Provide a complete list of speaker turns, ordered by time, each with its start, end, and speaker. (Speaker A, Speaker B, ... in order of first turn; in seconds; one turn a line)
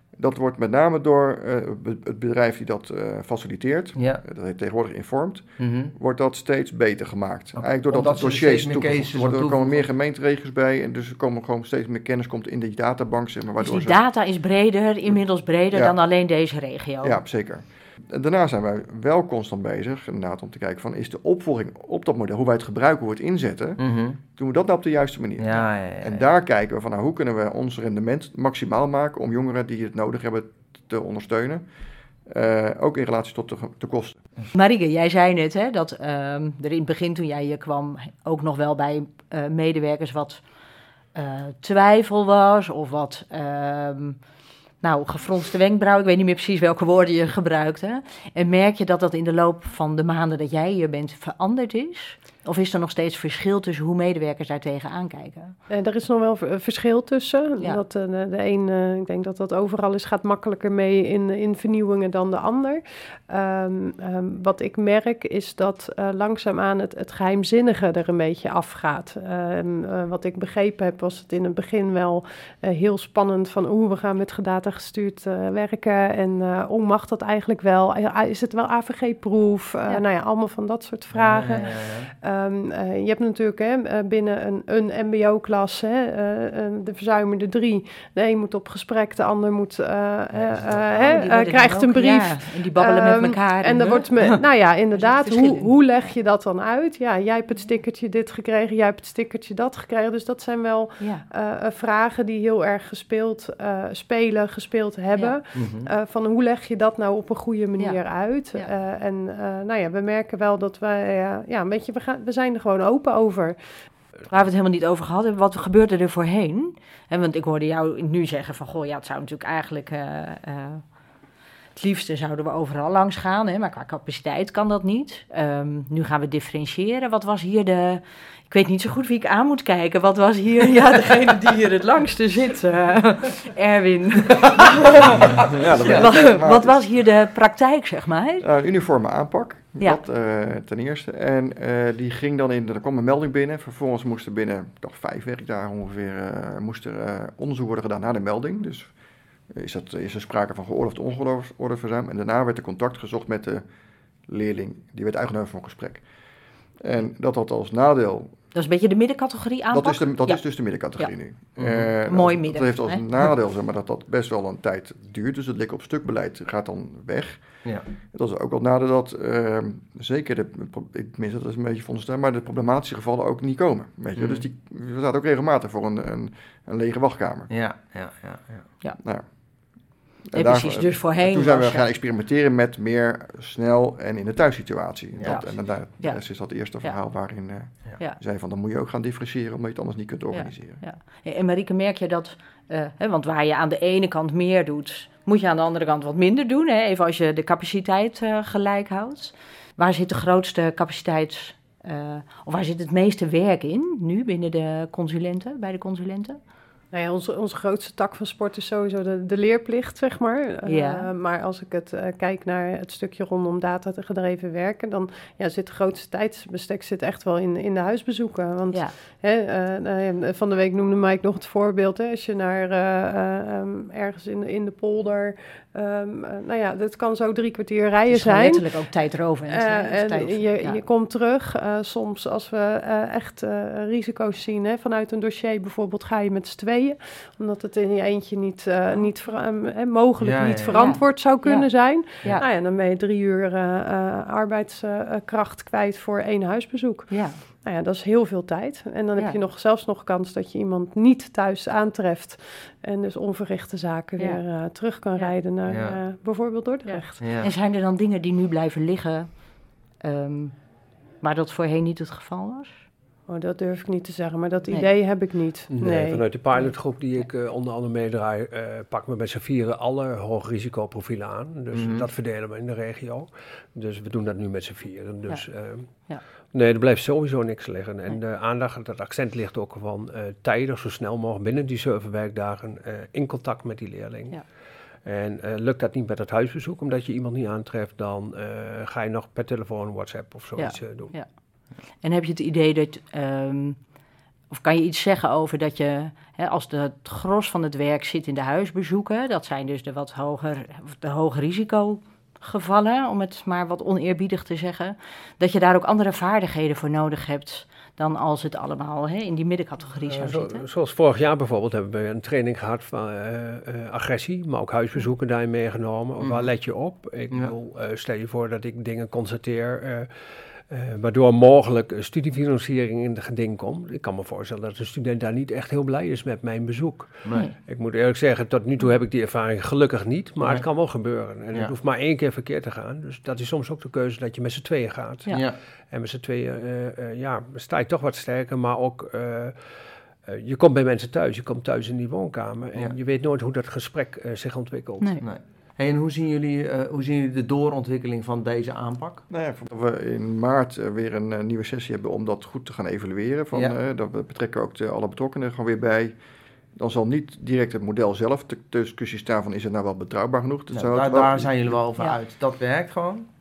Speaker A: 0.2-14.0
Speaker B: 4.0-4.2
Speaker B: 5.6-5.9
Speaker B: 7.6-9.9
Speaker C: 13.6-17.2
Speaker A: 17.0-31.6
Speaker B: 23.8-24.2
Speaker B: 25.4-26.3
Speaker A: 32.3-34.2
Speaker C: 34.6-40.4
Speaker C: 41.1-44.2
Speaker C: 44.8-55.5
Speaker D: 55.7-113.6
Speaker B: 81.1-82.1
Speaker B: 90.3-90.9
Speaker C: 90.9-95.7
Speaker C: 101.0-101.2
Speaker B: 105.5-105.9
Speaker C: 114.3-120.8
Speaker C: 121.8-135.3
Speaker B: 135.1-136.1
Speaker A: 135.2-136.8
Speaker C: 135.8-138.5
Speaker A: 138.4-148.9
Speaker A: 149.5-153.6
Speaker A: 154.3-156.0
Speaker A: 156.8-158.3
Speaker C: 158.5-160.4
Speaker A: 159.7-167.4
Speaker B: 161.6-161.9
Speaker C: 162.1-163.1
Speaker A: 168.1-177.5
Speaker B: 174.2-174.4
Speaker B: 177.5-178.7
Speaker A: 180.3-190.8
Speaker C: 180.3-181.8
Speaker C: 185.3-186.2
Speaker C: 190.3-206.4
Speaker D: 206.9-228.7
Speaker C: 210.7-211.1
Speaker C: 228.1-230.8
Speaker D: 229.5-257.2
Speaker B: 240.2-240.9
Speaker C: 240.7-242.5
Speaker C: 247.1-247.4
Speaker B: 255.7-256.0
Speaker C: 256.9-259.5
Speaker B: 257.2-257.5
Speaker C: 260.0-260.6
Speaker C: 261.2-262.9
Speaker D: 263.3-266.2
Speaker E: 265.7-284.5
Speaker C: 266.5-267.3
Speaker B: 271.7-272.1
Speaker E: 285.0-291.1
Speaker C: 290.6-291.3
Speaker C: 292.0-293.8
Speaker C: 294.5-310.7
Speaker E: 310.0-339.6
Speaker B: 316.2-316.5
Speaker B: 330.4-330.7
Speaker B: 335.3-335.6
Speaker E: 340.2-345.1
Speaker C: 345.0-345.2
Speaker B: 345.2-349.2
Speaker A: 349.3-356.2
Speaker A: 356.8-361.8
Speaker B: 360.7-363.3